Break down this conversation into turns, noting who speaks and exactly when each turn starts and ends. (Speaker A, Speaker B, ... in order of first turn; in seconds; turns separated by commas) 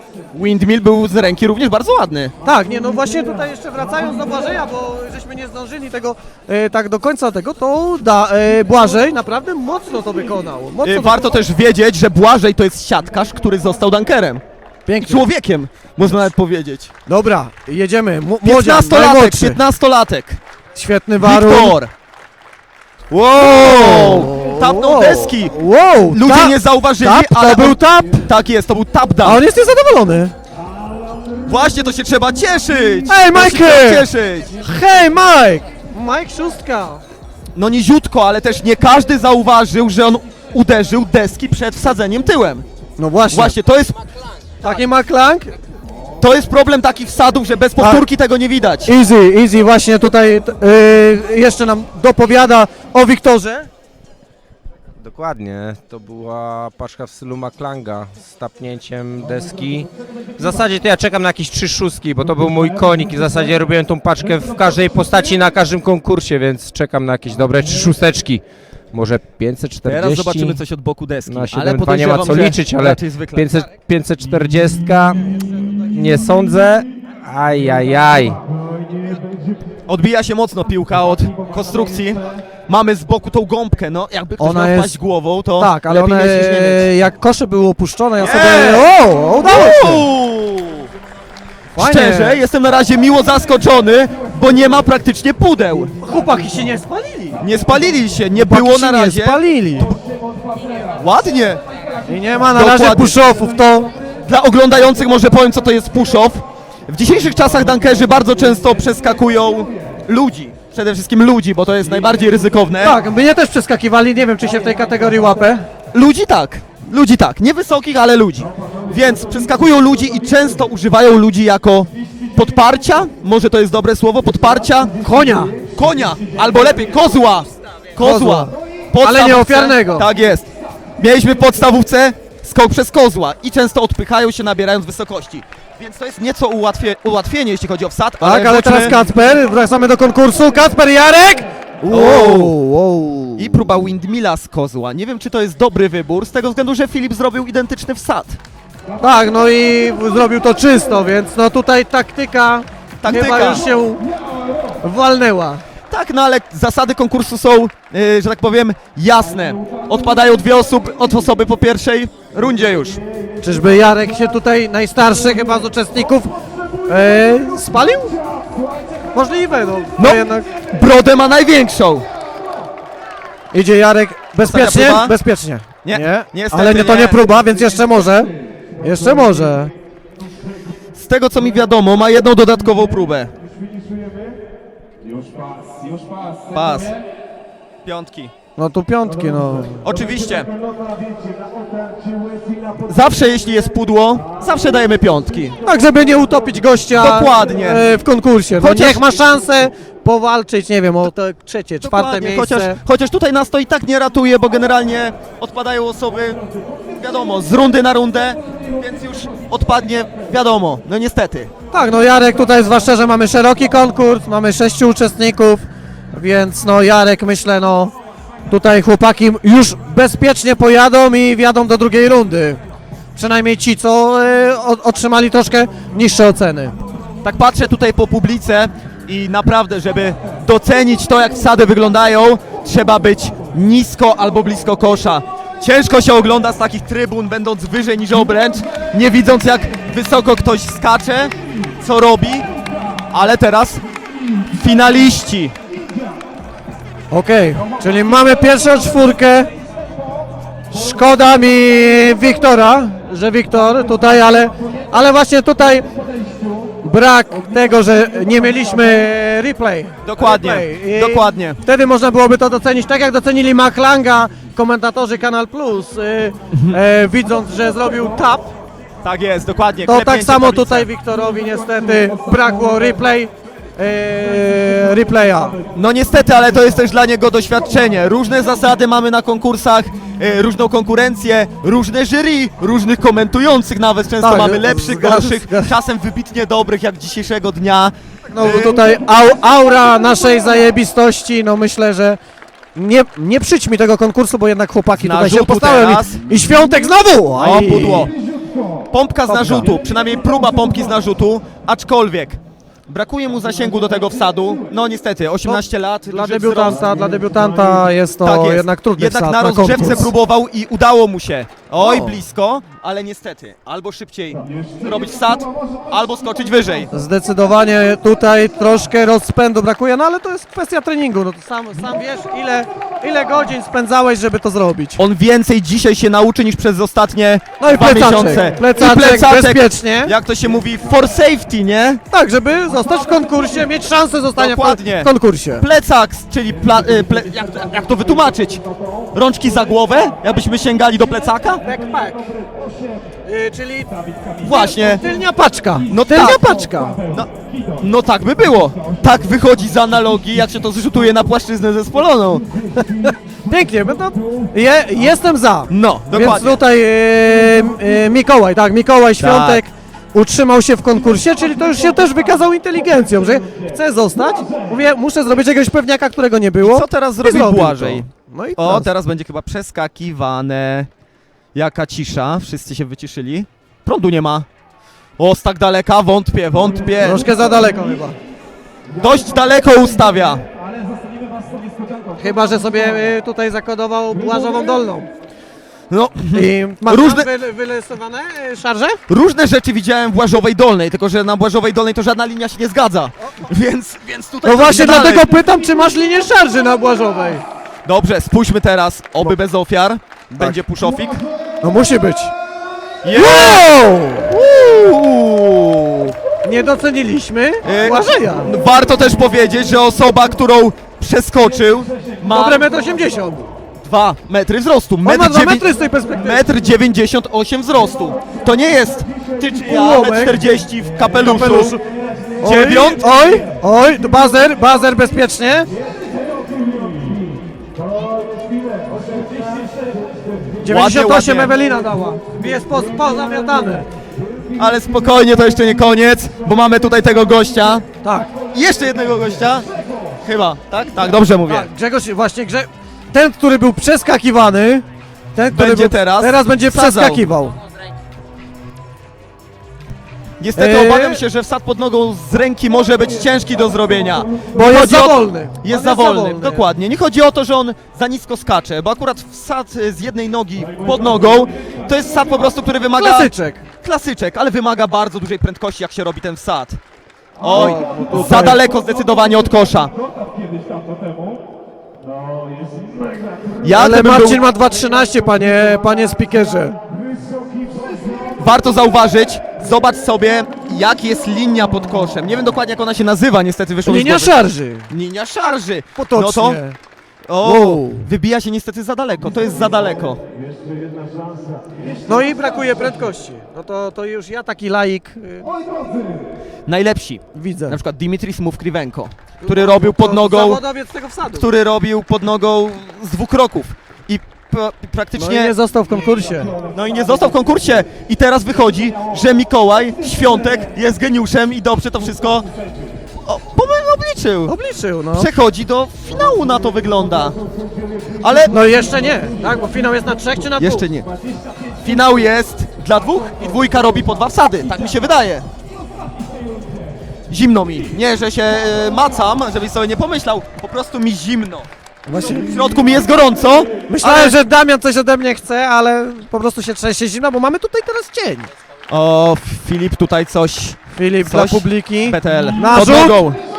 Speaker A: 0.3-2.3, Speaker B: 2.4-11.2, Speaker A: 10.8-14.4, Speaker B: 14.9-15.2, Speaker A: 15.0-16.9, Speaker B: 17.1-19.6, Speaker A: 18.4-20.4, Speaker B: 20.7-21.7, Speaker A: 21.2-21.9, Speaker B: 23.1-28.2, Speaker A: 23.3-25.5, Speaker A: 26.1-29.4, Speaker B: 29.2-30.3, Speaker A: 31.5-34.5, Speaker B: 33.1-34.0, Speaker B: 34.6-37.0, Speaker A: 37.5-42.6, Speaker B: 43.0-43.5, Speaker A: 43.3-44.0, Speaker B: 44.6-45.5, Speaker A: 46.2-48.9, Speaker B: 47.8-48.0, Speaker B: 48.9-53.7, Speaker C: 55.0-70.6, Speaker A: 69.9-73.5, Speaker C: 71.2-78.4, Speaker A: 79.9-86.9, Speaker B: 84.4-84.9, Speaker B: 85.6-90.0, Speaker A: 88.2-88.9, Speaker A: 89.4-90.9, Speaker B: 91.8-92.4, Speaker A: 91.8-95.9, Speaker B: 96.0-97.4, Speaker A: 97.4-99.4, Speaker B: 98.4-99.9, Speaker A: 101.0-101.6, Speaker B: 102.1-103.9, Speaker A: 102.5-103.2, Speaker A: 104.2-113.0, Speaker B: 112.8-115.6, Speaker A: 115.9-124.9, Speaker B: 125.0-125.5, Speaker A: 125.8-130.5, Speaker B: 128.0-128.5, Speaker B: 129.0-130.1, Speaker A: 131.0-138.9, Speaker B: 138.2-143.6, Speaker A: 141.9-142.5, Speaker A: 143.4-148.4, Speaker B: 149.0-154.0, Speaker A: 153.0-153.7, Speaker B: 154.8-155.6, Speaker A: 155.9-163.0, Speaker B: 163.4-166.3, Speaker B: 166.9-168.2, Speaker B: 169.1-170.5, Speaker A: 170.0-172.0, Speaker B: 173.5-179.7, Speaker A: 174.4-175.2, Speaker A: 175.8-177.2, Speaker A: 180.9-183.3, Speaker A: 186.5-187.0, Speaker A: 187.8-188.3, Speaker B: 188.6-189.8, Speaker A: 189.8-190.5, Speaker A: 192.9-195.6, Speaker B: 195.6-202.8, Speaker A: 196.9-197.8, Speaker A: 198.6-199.0, Speaker A: 201.8-206.4, Speaker A: 207.0-211.5, Speaker B: 211.7-217.9, Speaker B: 218.5-222.6, Speaker B: 223.2-226.8, Speaker A: 227.2-242.4, Speaker A: 243.1-243.8, Speaker A: 244.5-245.5, Speaker B: 247.1-249.5, Speaker B: 250.7-255.9, Speaker B: 256.8-268.5, Speaker A: 260.0-261.6, Speaker A: 269.0-270.9, Speaker B: 269.9-275.6, Speaker A: 275.7-288.8, Speaker B: 284.2-285.7, Speaker B: 288.3-292.2, Speaker B: 292.7-298.1, Speaker A: 294.9-296.2, Speaker A: 297.4-298.1, Speaker A: 298.9-306.8, Speaker B: 299.3-299.7, Speaker B: 305.4-310.1, Speaker A: 308.2-316.9, Speaker B: 311.8-312.2, Speaker B: 316.9-325.0, Speaker A: 325.0-332.0, Speaker B: 327.6-330.1, Speaker B: 332.1-335.6, Speaker A: 334.4-338.6, Speaker A: 339.1-341.6, Speaker B: 341.6-342.2, Speaker B: 343.2-347.0, Speaker A: 344.4-345.0, Speaker A: 345.9-346.6, Speaker A: 347.1-352.4, Speaker B: 353.0-368.9, Speaker A: 355.7-356.6, Speaker A: 359.2-359.6, Speaker A: 366.6-370.9, Speaker A: 371.5-374.4, Speaker A: 375.2-377.2, Speaker B: 377.0-378.1, Speaker A: 379.0-380.4, Speaker B: 382.2-385.1, Speaker A: 385.9-387.3, Speaker B: 386.3-389.0, Speaker A: 389.1-395.2, Speaker B: 394.4-397.4, Speaker A: 397.8-401.2, Speaker B: 401.6-402.3, Speaker A: 403.0-403.6, Speaker B: 403.1-404.3, Speaker A: 404.3-406.1, Speaker B: 406.4-408.5, Speaker A: 407.6-412.6, Speaker B: 412.3-413.4, Speaker A: 413.8-415.6, Speaker B: 415.0-416.4, Speaker A: 416.2-421.8, Speaker B: 419.6-420.4, Speaker B: 421.2-421.8, Speaker B: 422.4-425.7, Speaker A: 422.4-423.0, Speaker B: 430.6-433.9, Speaker A: 430.7-431.5, Speaker A: 434.6-437.9, Speaker B: 438.0-438.3, Speaker A: 438.5-439.7, Speaker A: 440.2-441.7, Speaker B: 441.5-447.6, Speaker A: 445.5-447.2, Speaker A: 450.4-463.3, Speaker B: 450.6-451.2, Speaker B: 454.5-456.6, Speaker B: 463.0-463.6, Speaker A: 463.8-466.8, Speaker A: 467.4-469.9, Speaker B: 467.5-468.6, Speaker A: 473.6-474.4, Speaker B: 473.7-476.8, Speaker A: 478.4-486.6, Speaker B: 483.8-484.9, Speaker B: 486.0-486.8, Speaker A: 487.3-490.2, Speaker B: 487.4-488.1, Speaker B: 492.1-495.5, Speaker A: 496.6-500.6, Speaker B: 497.3-497.8, Speaker B: 499.4-501.5, Speaker A: 501.3-505.5, Speaker B: 505.2-506.5, Speaker A: 506.7-512.5, Speaker A: 513.2-514.5, Speaker B: 514.5-515.3, Speaker A: 515.1-517.4, Speaker A: 518.2-518.5, Speaker B: 518.5-520.8, Speaker A: 520.6-521.1, Speaker A: 521.8-525.5, Speaker A: 527.3-531.7, Speaker B: 532.1-532.5, Speaker A: 532.4-534.4, Speaker B: 533.9-538.5, Speaker A: 538.9-543.4, Speaker B: 540.9-543.2